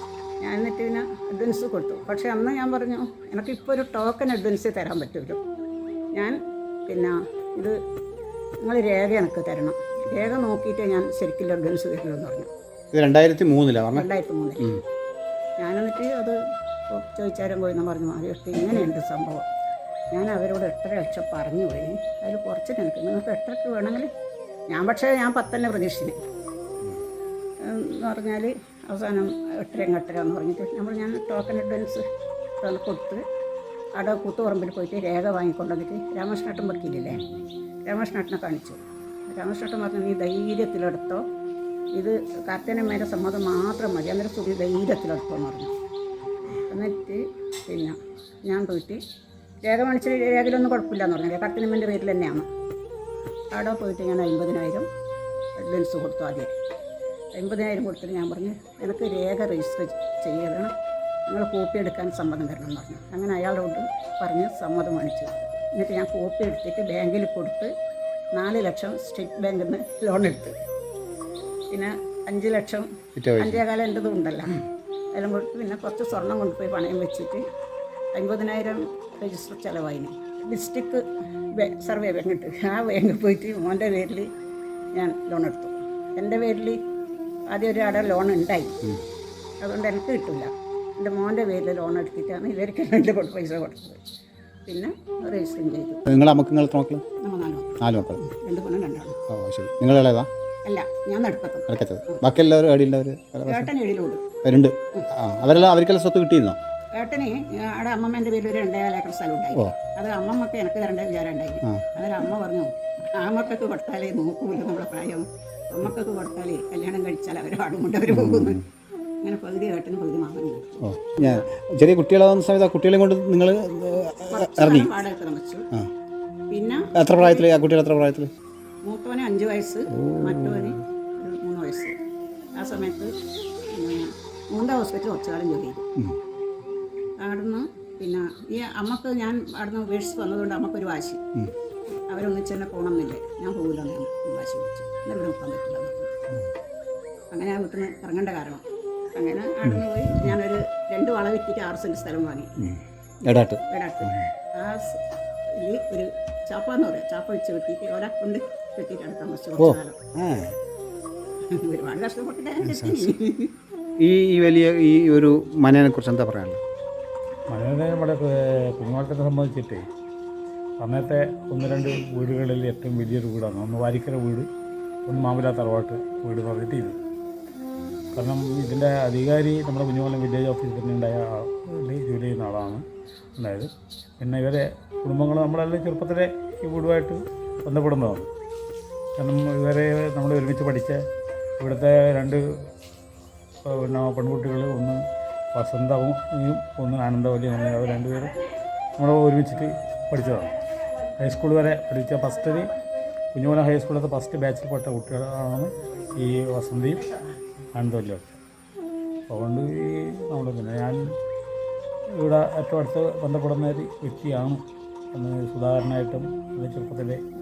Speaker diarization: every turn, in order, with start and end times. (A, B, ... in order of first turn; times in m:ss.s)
0:00.4-0:05.4 A
0:06.9-0:07.8 A
0:08.6-0:12.5 A
0:12.9-0:14.1 B
0:13.9-0:14.7 A
0:15.6-0:16.3 A
0:16.9-0:19.4 A
0:20.1-0:24.1 A
0:24.7-0:26.2 A
0:27.6-0:32.0 A
0:32.6-0:33.2 A
0:34.0-0:37.2 A
0:37.8-0:41.2 A
0:41.9-0:45.7 A
0:46.7-0:47.9 A
0:48.5-0:49.0 A
0:49.6-0:52.5 A
0:53.5-0:54.9 A
0:55.6-0:56.6 A
0:57.4-1:00.7 A
1:01.3-1:07.7 A
1:08.3-1:10.5 A
1:11.7-1:14.6 A
1:13.2-1:13.6 B
1:15.1-1:17.4 A
1:18.1-1:21.0 A
1:21.6-1:24.3 A
1:24.9-1:26.8 A
1:27.5-1:28.8 A
1:29.6-1:34.0 A
1:34.7-1:36.0 A
1:36.0-1:37.0 B
1:37.2-1:39.2 A
1:37.8-1:38.2 B
1:39.3-1:40.3 B
1:40.6-1:42.2 A
1:41.7-1:43.7 B
1:43.5-1:44.3 A
1:44.4-1:46.6 B
1:46.9-1:58.6 A
1:58.1-1:58.6 B
1:59.2-2:01.4 A
2:00.8-2:04.9 B
2:04.2-2:05.7 A
2:06.5-2:07.5 A
2:06.9-2:08.3 B
2:08.8-2:12.0 A
2:09.9-2:10.8 B
2:12.5-2:13.1 A
2:13.7-2:15.8 A
2:17.2-2:21.2 A
2:22.1-2:26.1 A
2:27.3-2:32.7 A
2:32.6-2:34.3 B
2:33.7-2:40.0 A
2:39.6-2:40.6 B
2:41.4-2:43.5 A
2:42.6-2:43.1 B
2:44.0-2:46.6 B
2:47.5-2:49.9 C
2:50.8-2:54.5 C
2:55.0-2:57.0 C
2:58.1-3:02.8 C
3:03.4-3:08.3 C
3:09.2-3:11.0 C
3:11.6-3:12.4 C
3:13.6-3:15.0 C
3:15.5-3:18.4 C
3:19.0-3:22.7 C
3:23.3-3:27.1 C
3:27.7-3:28.4 C
3:29.3-3:31.1 C
3:32.2-3:37.2 C